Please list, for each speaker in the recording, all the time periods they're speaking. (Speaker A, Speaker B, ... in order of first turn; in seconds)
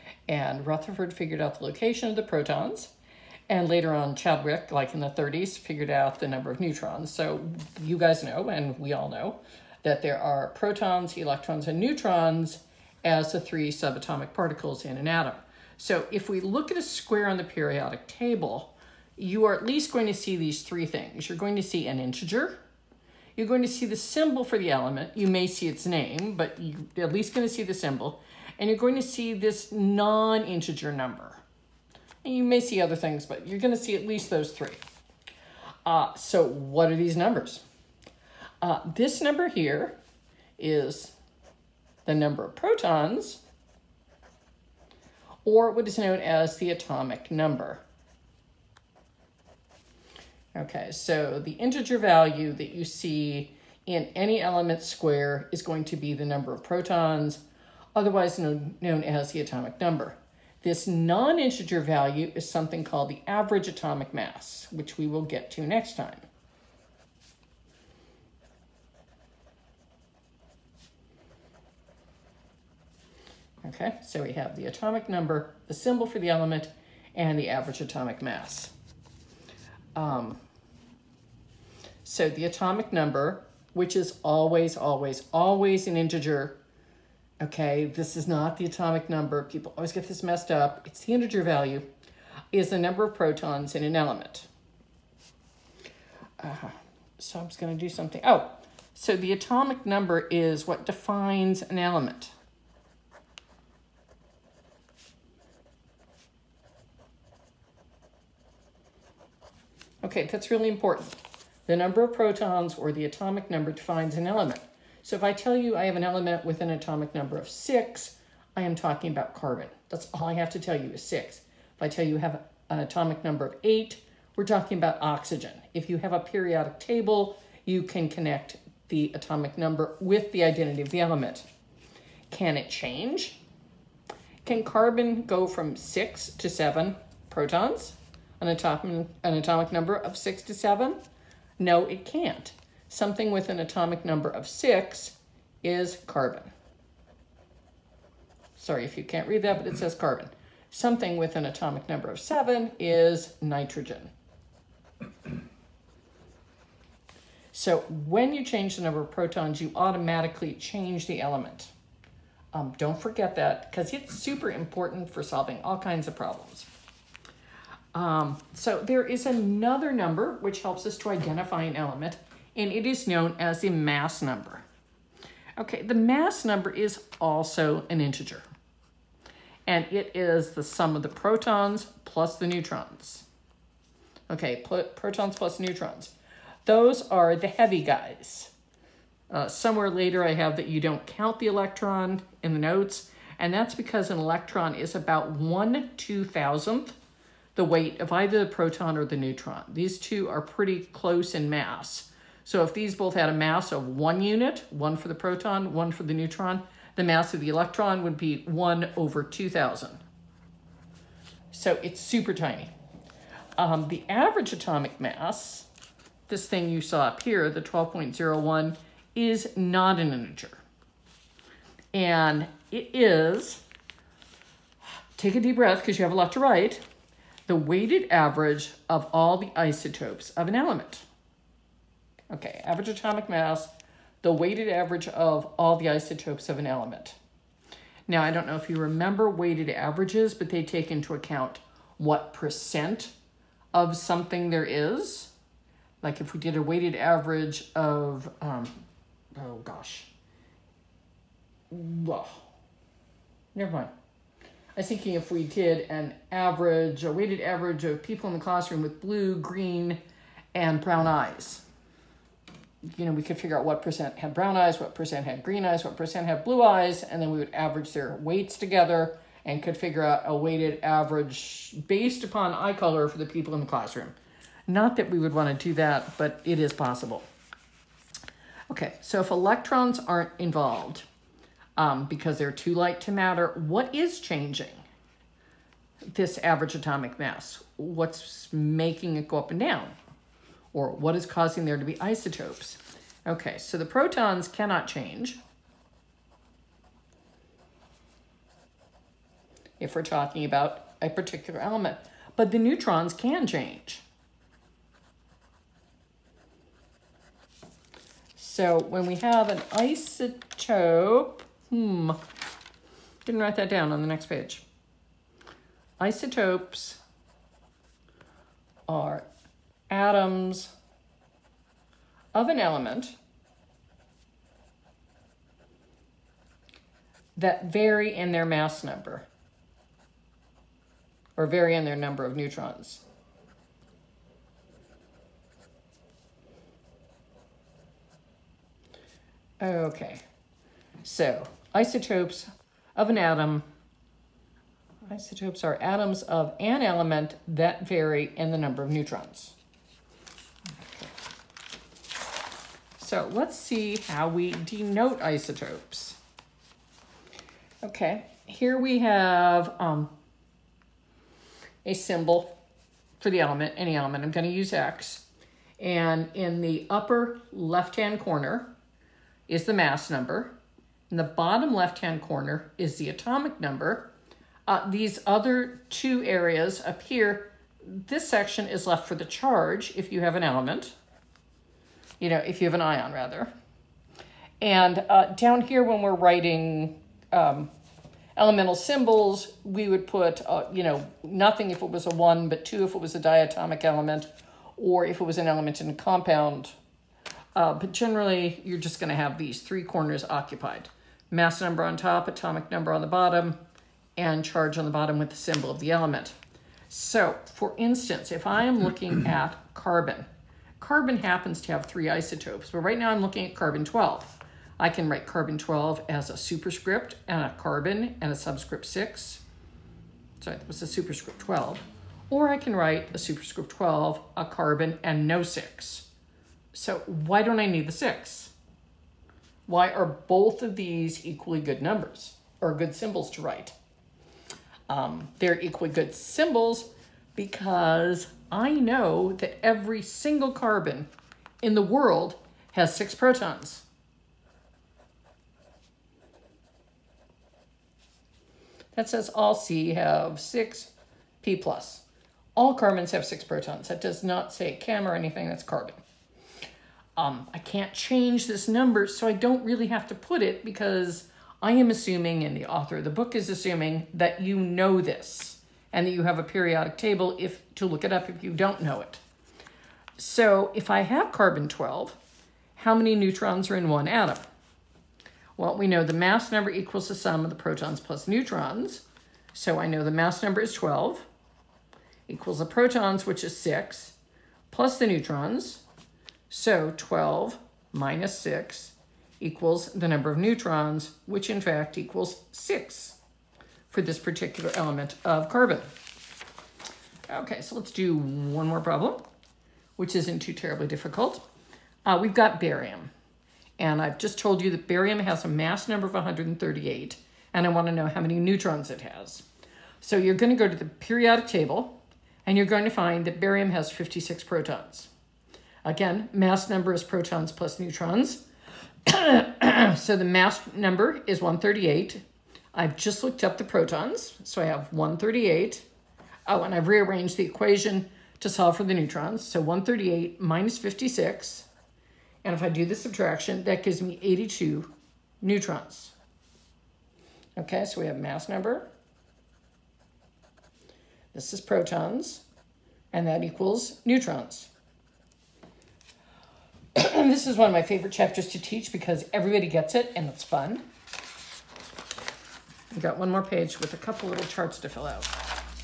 Speaker A: 0.3-2.9, 3.5-22.6, 23.4-31.4, 32.2-34.8, 35.9-37.6, 38.6-40.0, 40.6-41.2, 42.1-43.4, 45.5-47.8, 50.5-57.4, 58.0-66.3, 73.6-78.7, 80.0-80.4, 82.0-86.6, 87.4-91.9, 92.5-94.5, 96.4-102.3, 110.0-131.5, 132.3-133.4, 134.4-141.0, 141.6-146.5, 148.6-154.1, 157.5-161.7, 162.5-166.7, 167.9-174.7, 175.6-178.4, 179.7-183.3, 184.3-186.1, 186.7-188.5, 189.3-197.0, 197.6-210.0, 211.5-212.7, 213.6-215.7, 216.3-220.6, 221.9-223.6, 225.2-226.8, 227.5-231.1, 232.3-233.7, 234.2-237.2, 238.1-243.1, 243.7-245.3, 246.0-248.8, 249.3-250.1, 251.7-252.5, 253.6-253.9, 254.8-260.0, 260.5-261.6, 262.9-274.2, 274.7-277.3, 278.7-281.1, 281.8-284.8, 286.1-290.0, 290.7-295.4, 299.8-304.0, 308.4-312.2, 313.3-314.6, 316.0-317.0, 318.9-319.2, 319.9-320.7, 322.3-323.1, 327.4-329.3, 331.4-333.0, 339.6-340.2, 341.0-343.7, 345.1-349.6, 350.8-351.1, 353.0-356.2, 357.8-360.1, 361.9-362.6, 363.2-365.2, 365.8-368.7, 369.5-370.6, 371.1-374.1, 374.7-380.9, 382.2-383.5, 384.6-387.7, 388.4-396.7, 397.6-403.6, 404.2-406.4, 406.9-410.3, 410.8-419.4, 420.4-426.1, 426.7-428.5, 429.7-433.7, 434.9-441.1, 441.6-443.9, 448.9-452.1, 452.6-456.0, 457.2-469.2, 470.2-472.2, 472.8-474.5, 475.6-481.3, 482.3-484.2, 484.7-485.9, 486.5-493.2, 493.9-495.9, 497.3-499.2, 500.0-501.4, 502.1-503.1, 503.8-509.5, 510.0-515.1, 515.8-518.4, 519.0-525.9, 526.5-531.7, 532.4-536.1, 537.6-538.9, 541.3-542.4, 543.1-544.7, 546.9-550.8, 552.9-555.3